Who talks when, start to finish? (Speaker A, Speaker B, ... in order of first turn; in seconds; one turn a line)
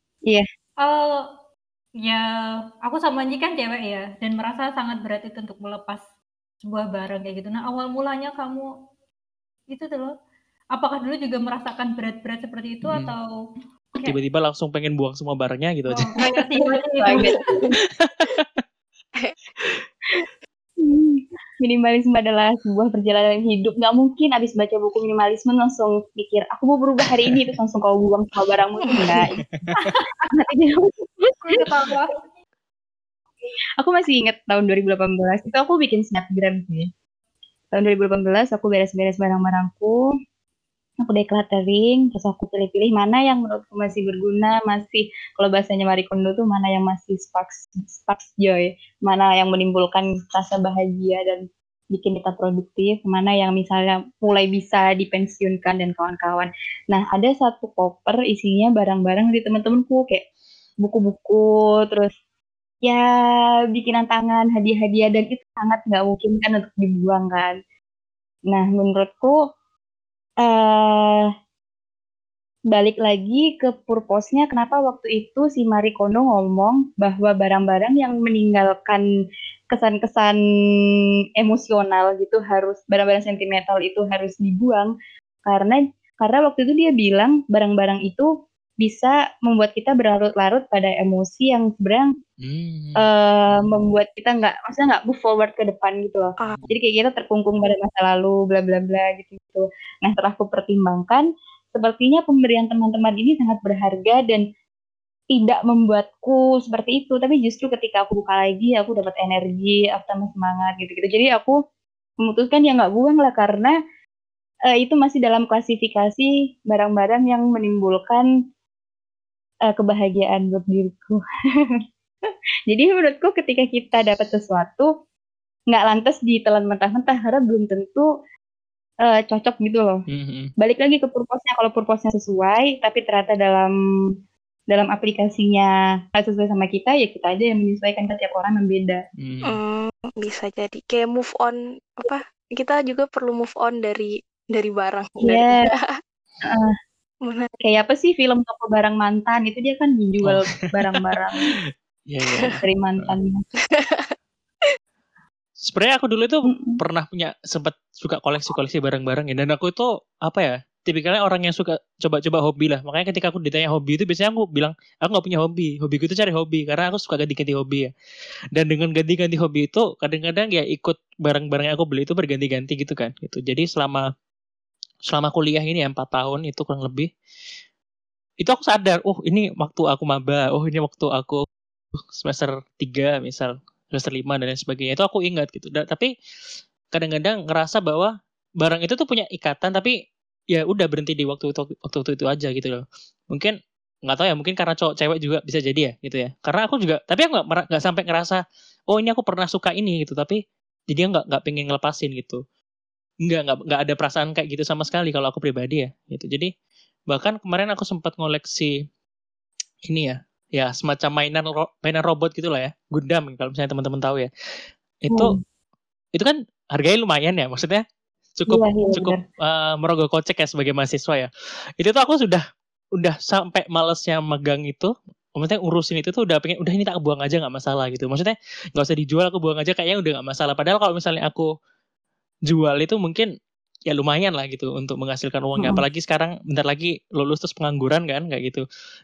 Speaker A: 0.8-1.3
Speaker A: 2.8-6.1
Speaker A: 6.6-8.7
Speaker A: 9.7-10.1
Speaker A: 10.7-13.3
Speaker B: 12.8-13.1
Speaker B: 14.0-16.1
Speaker A: 15.9-17.6
Speaker C: 16.6-17.8
Speaker B: 18.0-18.6
Speaker B: 19.6-19.8
Speaker C: 20.8-29.4
Speaker B: 27.0-27.5
Speaker D: 28.8-29.3
Speaker B: 29.2-29.9
Speaker A: 29.8-30.3
Speaker C: 30.3-31.9
Speaker A: 31.4-32.2
Speaker C: 33.8-36.9
Speaker C: 37.7-40.0
Speaker C: 41.0-60.2
Speaker C: 60.8-62.1
Speaker C: 63.7-67.5
Speaker C: 68.5-69.4
Speaker C: 70.4-71.3
Speaker C: 72.7-79.0
Speaker C: 79.7-80.4
Speaker C: 81.4-84.9
Speaker C: 85.4-88.3
Speaker C: 88.8-92.1
Speaker B: 92.4-93.7
Speaker C: 93.0-104.4
Speaker C: 105.3-111.5
Speaker C: 112.2-113.7
Speaker C: 114.7-118.2
Speaker C: 119.7-121.2
Speaker C: 122.7-124.9
Speaker C: 125.7-128.1
Speaker C: 129.1-130.0
Speaker B: 130.1-130.5
Speaker C: 130.6-133.7
Speaker C: 134.7-139.0
Speaker B: 139.2-139.6
Speaker D: 139.4-146.0
Speaker C: 145.2-145.7
Speaker C: 146.4-146.7
Speaker D: 147.2-147.5
Speaker C: 147.6-151.5
Speaker B: 150.2-153.1
Speaker D: 152.2-152.5
Speaker C: 152.6-153.4
Speaker D: 153.6-154.7
Speaker B: 155.6-167.9
Speaker C: 156.5-156.8
Speaker B: 168.5-174.1
Speaker B: 175.1-177.1
Speaker B: 178.4-181.4
Speaker B: 182.2-186.1
Speaker B: 186.9-190.0
Speaker B: 190.5-202.4
Speaker B: 203.2-206.5
Speaker B: 207.1-208.7
Speaker B: 209.8-214.3
Speaker B: 215.0-215.3
Speaker B: 216.1-217.8
Speaker B: 218.4-222.4
Speaker C: 218.5-219.2
Speaker B: 223.0-231.5
Speaker B: 232.5-233.3
Speaker B: 233.9-238.6